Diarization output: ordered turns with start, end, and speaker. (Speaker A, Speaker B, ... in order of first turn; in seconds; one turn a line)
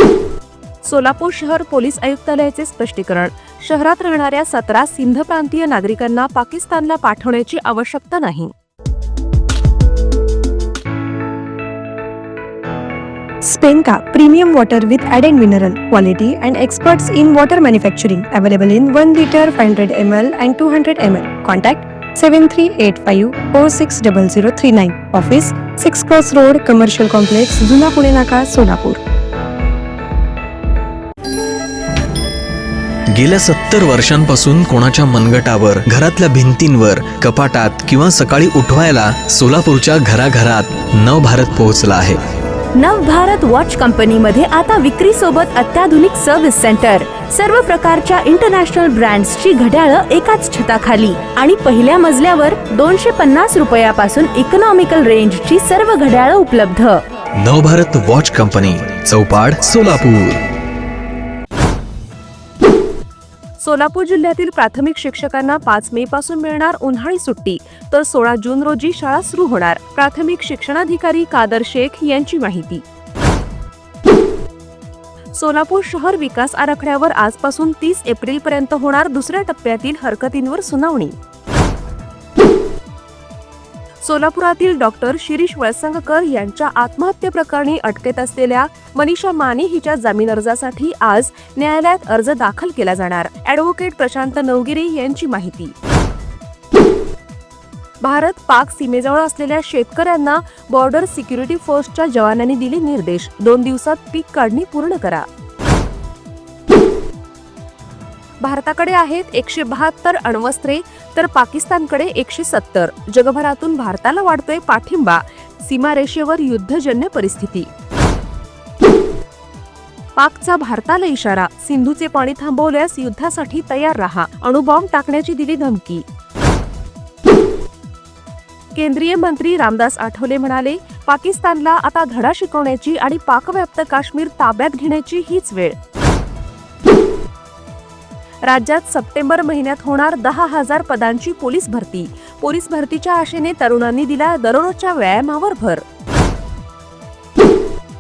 Speaker A: 0.8-8.5
Speaker B: 13.4-29.0
Speaker C: 33.1-42.2
Speaker D: 42.8-57.0
Speaker A: 44.6-45.3
Speaker A: 46.0-48.4
Speaker A: 49.8-50.3
Speaker A: 51.4-52.4
Speaker C: 57.4-60.4
Speaker A: 63.6-72.8
Speaker A: 75.3-81.2
Speaker A: 84.0-95.8
Speaker A: 98.0-105.3
Speaker A: 108.4-117.7
Speaker A: 120.2-126.0
Speaker A: 128.8-135.8
Speaker A: 138.4-145.8